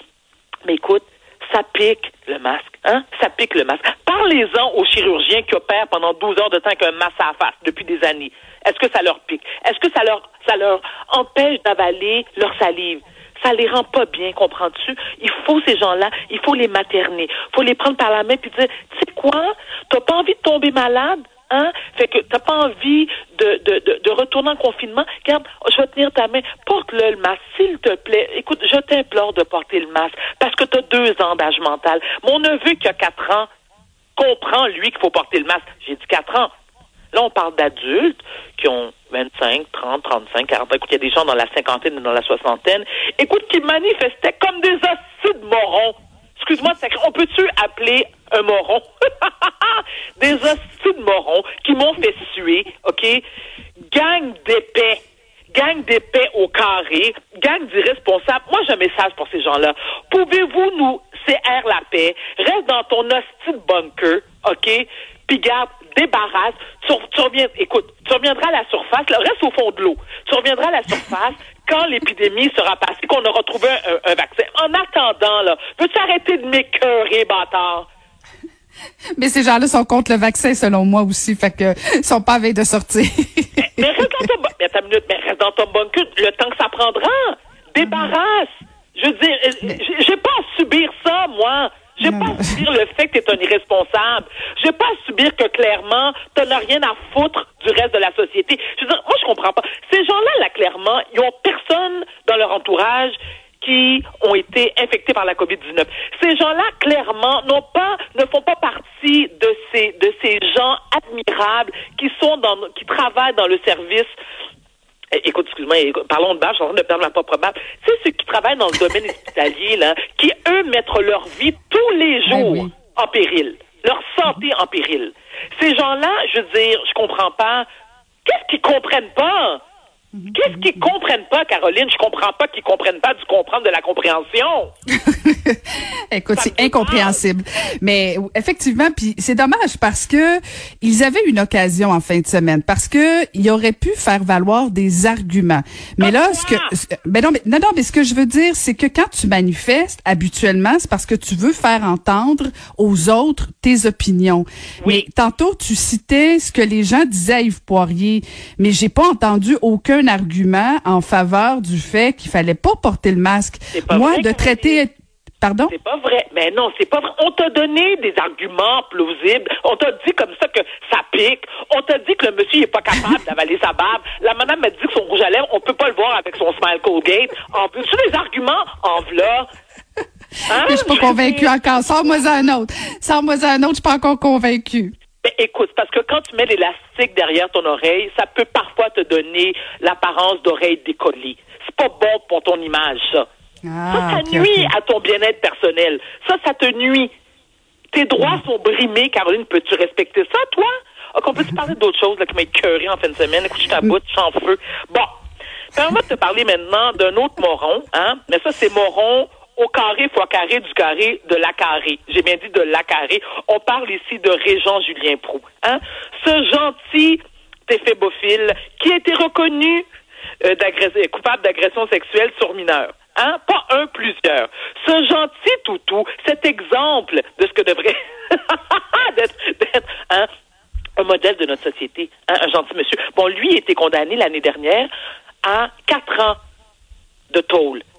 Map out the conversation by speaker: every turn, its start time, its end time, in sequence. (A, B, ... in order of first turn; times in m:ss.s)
0:00.6-0:33.5 A
0:34.2-0:36.5 A
0:37.1-0:53.2 A
0:53.9-0:55.0 A
0:55.5-1:17.9 A
1:19.2-1:24.2 B
1:23.7-1:54.2 A
1:27.8-1:28.1 B
1:32.0-1:32.6 B
1:55.1-2:07.7 A
2:02.3-2:02.7 B
2:08.2-2:09.6 A
2:10.1-2:10.8 B
2:10.3-2:14.7 A
2:15.1-2:45.7 B
2:16.4-2:17.2 A
2:26.0-2:26.7 A
2:34.8-2:35.0 A
2:43.7-2:44.8 A
2:45.7-2:59.5 A
3:00.5-3:01.6 A
3:00.6-3:04.9 B
3:05.2-3:13.3 A
3:13.6-3:14.7 B
3:13.9-3:17.1 A
3:17.9-3:25.1 A
3:25.7-3:39.8 A
3:40.4-3:50.3 A
3:51.0-3:54.9 A
3:55.4-3:56.4 A
3:57.3-3:57.8 A